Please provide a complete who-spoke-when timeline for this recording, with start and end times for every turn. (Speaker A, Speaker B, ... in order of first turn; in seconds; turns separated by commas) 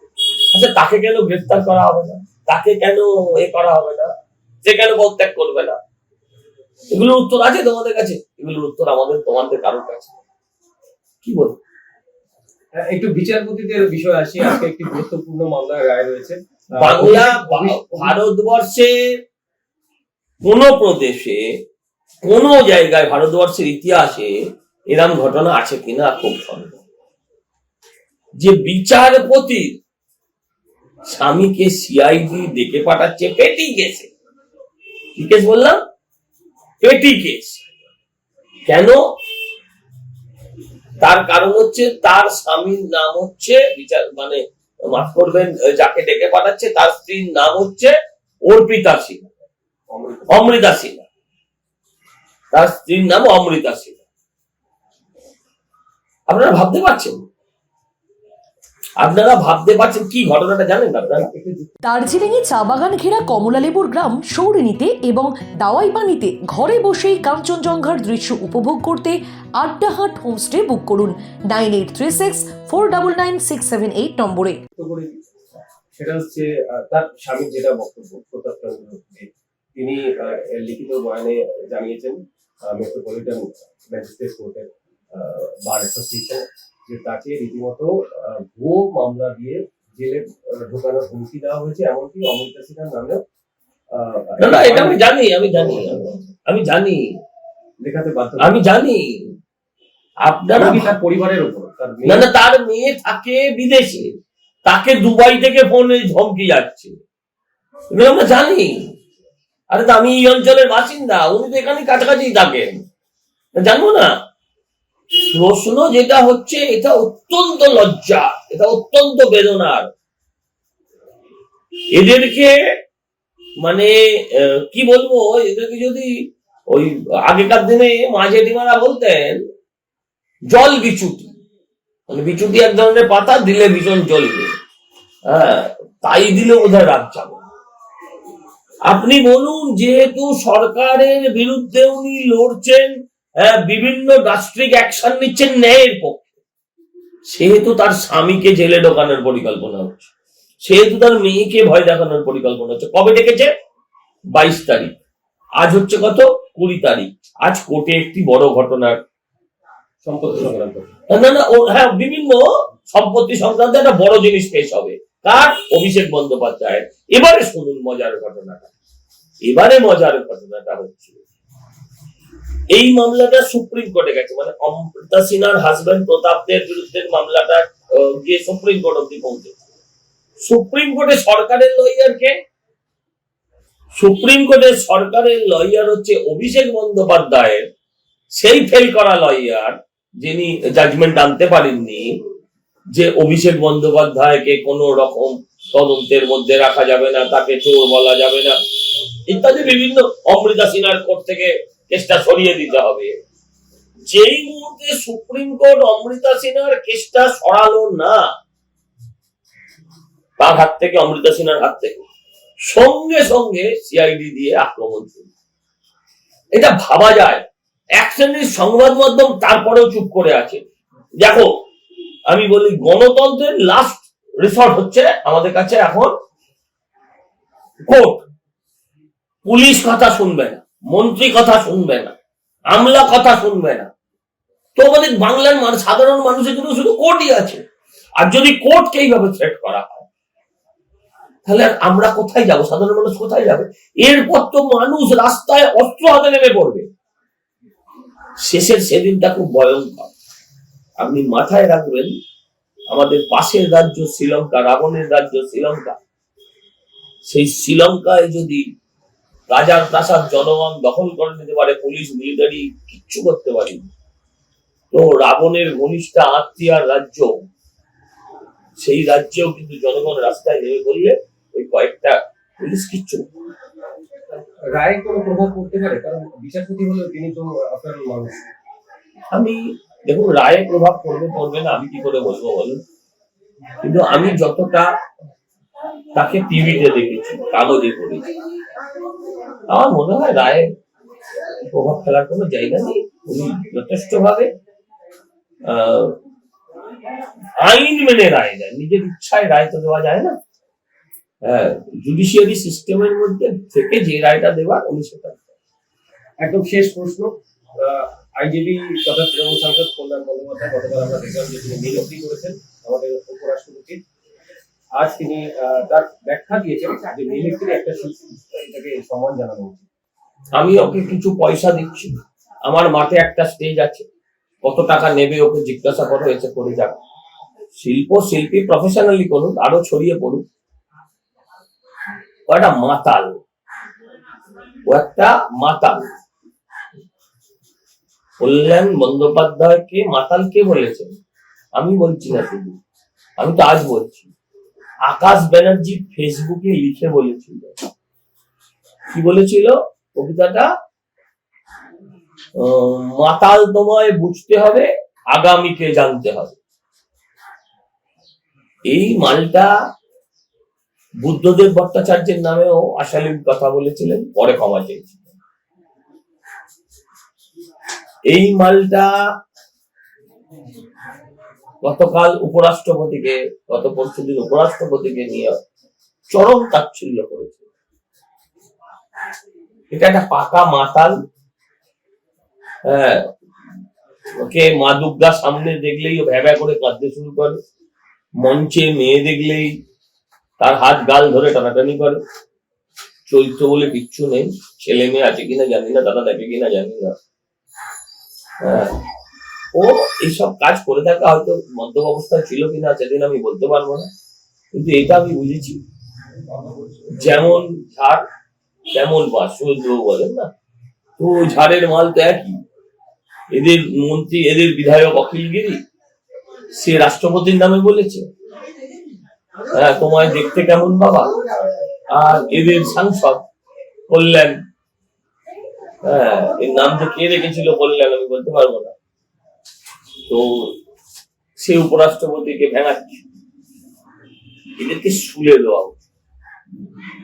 Speaker A: 0.5-4.1, Speaker A: 4.6-5.8, Speaker A: 6.9-10.2, Speaker A: 11.2-11.6, Speaker B: 12.8-18.2, Speaker A: 16.8-18.9, Speaker A: 20.4-21.4, Speaker A: 22.2-24.4, Speaker A: 24.9-26.8, Speaker A: 28.4-29.7, Speaker A: 31.1-34.1, Speaker A: 35.1-35.8, Speaker A: 36.8-37.6, Speaker A: 38.7-39.0, Speaker A: 41.0-49.3, Speaker B: 49.9-50.5, Speaker A: 50.3-51.0, Speaker A: 52.5-54.0, Speaker A: 56.3-57.2, Speaker A: 59.0-61.3, Speaker B: 61.1-61.7, Speaker C: 61.8-74.6, Speaker B: 74.8-75.2, Speaker B: 75.9-93.2, Speaker B: 93.9-96.0, Speaker A: 94.4-97.0, Speaker B: 97.8-98.6, Speaker A: 98.4-99.2, Speaker A: 100.2-100.9, Speaker B: 100.5-102.3, Speaker A: 102.0-104.1, Speaker A: 104.7-107.0, Speaker A: 107.9-108.9, Speaker A: 109.7-112.7, Speaker A: 113.5-114.1, Speaker A: 115.2-119.9, Speaker A: 121.9-122.6, Speaker A: 123.6-126.1, Speaker A: 126.7-129.4, Speaker A: 130.5-131.3, Speaker A: 132.1-134.5, Speaker A: 135.3-137.4, Speaker A: 138.9-146.3, Speaker A: 147.3-150.1, Speaker A: 150.6-153.5, Speaker A: 154.3-154.9, Speaker A: 155.6-159.0, Speaker B: 160.0-160.9, Speaker A: 161.1-168.7, Speaker A: 169.4-171.2, Speaker A: 172.7-179.6, Speaker A: 180.4-182.3, Speaker A: 183.9-187.7, Speaker A: 188.3-192.2, Speaker A: 192.9-198.6, Speaker A: 199.3-203.2, Speaker A: 204.1-208.2, Speaker A: 210.4-212.0, Speaker A: 212.7-215.3, Speaker A: 216.5-217.4, Speaker A: 218.0-220.6, Speaker A: 221.2-221.5, Speaker A: 222.3-226.1, Speaker A: 227.9-228.2, Speaker A: 229.4-232.1, Speaker A: 232.7-233.9, Speaker A: 234.8-237.6, Speaker A: 238.2-240.1, Speaker A: 241.4-246.9, Speaker A: 248.4-250.1, Speaker A: 251.0-252.1, Speaker A: 252.9-256.0, Speaker A: 257.3-258.6, Speaker A: 259.5-263.9, Speaker A: 264.9-267.3, Speaker A: 268.8-273.3, Speaker B: 274.7-278.4, Speaker A: 279.3-282.8, Speaker A: 283.8-284.9, Speaker A: 286.1-288.3, Speaker A: 289.7-290.7, Speaker A: 291.6-294.5, Speaker A: 295.6-296.2, Speaker A: 297.6-300.4, Speaker A: 301.4-305.4, Speaker B: 306.4-314.0, Speaker B: 314.9-319.9, Speaker A: 320.6-324.1, Speaker A: 324.6-326.9, Speaker A: 327.8-330.4, Speaker A: 332.5-333.4, Speaker A: 334.9-336.1, Speaker A: 338.4-341.1, Speaker A: 341.8-342.8, Speaker A: 343.4-344.3, Speaker A: 345.0-347.7, Speaker A: 349.1-350.7, Speaker A: 352.6-356.6, Speaker A: 358.9-359.7, Speaker A: 361.2-365.2, Speaker A: 368.3-369.1, Speaker A: 371.8-375.6, Speaker A: 376.3-377.6, Speaker A: 379.9-381.2, Speaker A: 382.9-383.3, Speaker A: 384.4-387.6, Speaker A: 388.4-389.7, Speaker A: 390.6-392.2, Speaker A: 393.3-397.1, Speaker A: 398.6-398.9, Speaker A: 399.7-404.1, Speaker A: 404.7-405.8, Speaker A: 407.1-408.2, Speaker A: 408.9-410.5, Speaker A: 411.2-412.6, Speaker A: 413.5-415.8, Speaker A: 416.7-418.3, Speaker A: 419.7-421.4, Speaker A: 422.1-423.4, Speaker A: 424.1-424.6, Speaker A: 426.0-428.9, Speaker A: 430.3-430.7, Speaker A: 431.6-433.2, Speaker A: 434.8-435.9